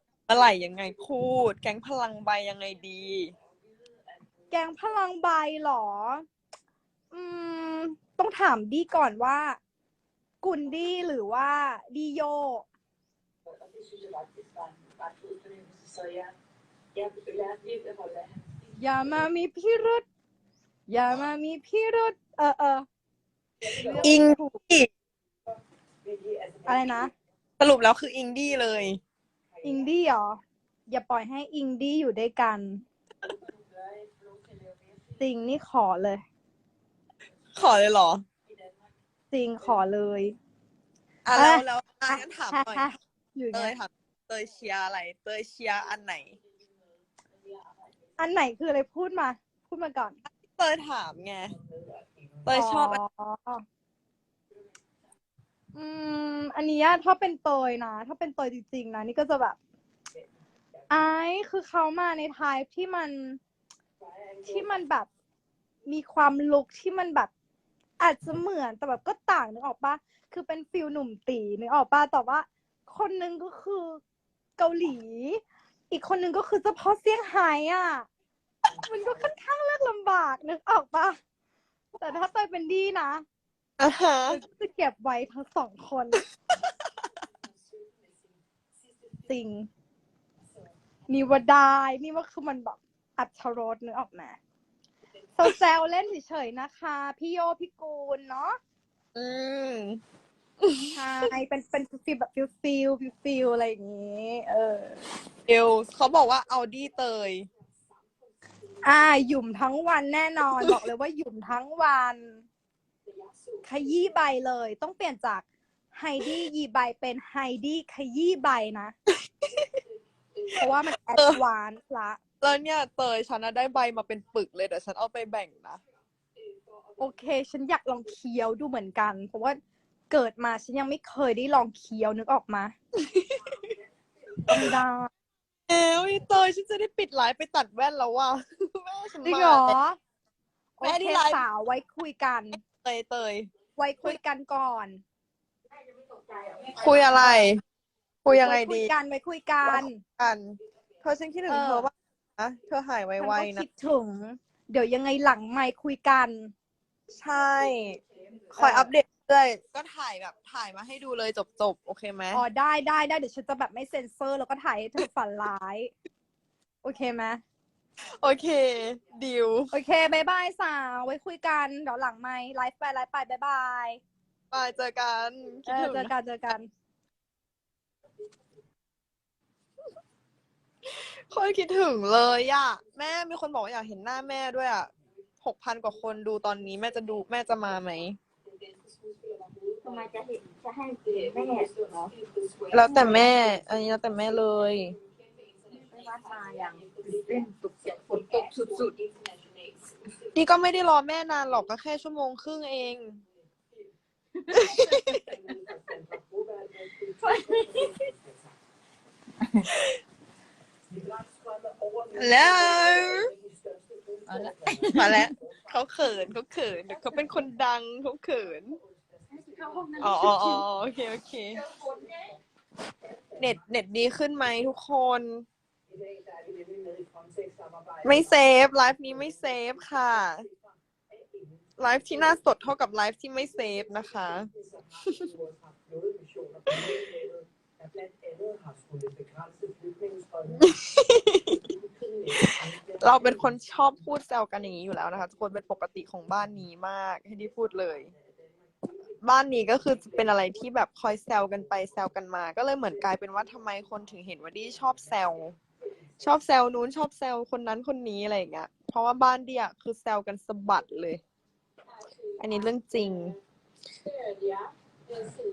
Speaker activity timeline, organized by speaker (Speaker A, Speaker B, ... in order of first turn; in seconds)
Speaker A: 0.3-3.3, 24.0-24.9, 27.6-29.0, 37.5-38.2, 41.2-42.9, 43.5-46.4, 50.2-51.5, 52.5-53.0, 83.8-84.4, 99.1-100.0, 100.6-101.3, 105.5-107.5, 119.1-119.7, 121.1-121.4, 122.4-125.8, 132.9-133.7, 134.5-134.8, 135.7-139.7, 140.8-141.4, 142.6-143.5, 146.7-147.6, 148.2-148.9, 149.6-153.7, 157.2-158.0, 158.5-162.4, 168.2-169.7, 174.5-176.1, 180.8-188.2, 192.7-195.0, 200.3-203.2, 204.5-205.2, 212.1-213.3, 214.9-218.8, 220.0-221.6, 223.3-225.4, 228.0-230.5, 231.8-235.3, 236.7-237.2, 240.5-241.7, 242.3-248.1, 249.2-255.6, 256.2-261.2, 262.4-263.4
Speaker B: 4.5-6.2, 7.1-9.6, 10.4-12.7, 18.8-20.0, 20.9-22.9, 23.6-24.6, 26.6-27.1, 29.6-32.8, 35.2-36.2, 39.3-40.4, 41.3-43.7, 48.2-50.2, 52.5-53.6, 55.7-59.6, 60.9-63.4, 64.4-65.1, 65.8-67.3, 68.0-74.0, 74.6-78.1, 78.7-81.2, 82.0-83.2, 84.3-86.2, 89.3-89.7, 91.1-94.4, 95.3-98.6, 101.0-105.0, 108.8-112.4, 113.6-118.9, 120.5-122.2, 127.0-132.7, 134.5-135.1, 139.2-140.0, 140.8-142.6, 143.8-145.0, 147.2-147.4, 148.3-150.0, 151.5-151.9, 153.2-156.5, 158.6-158.9, 162.3-165.9, 166.8-167.4, 169.7-174.0, 175.7-176.7
Speaker C: 146.1-147.1, 189.8-192.1, 192.7-193.4, 195.7-199.1, 204.4-205.5, 207.2-207.9, 209.4-209.7, 214.3-215.3, 219.3-220.6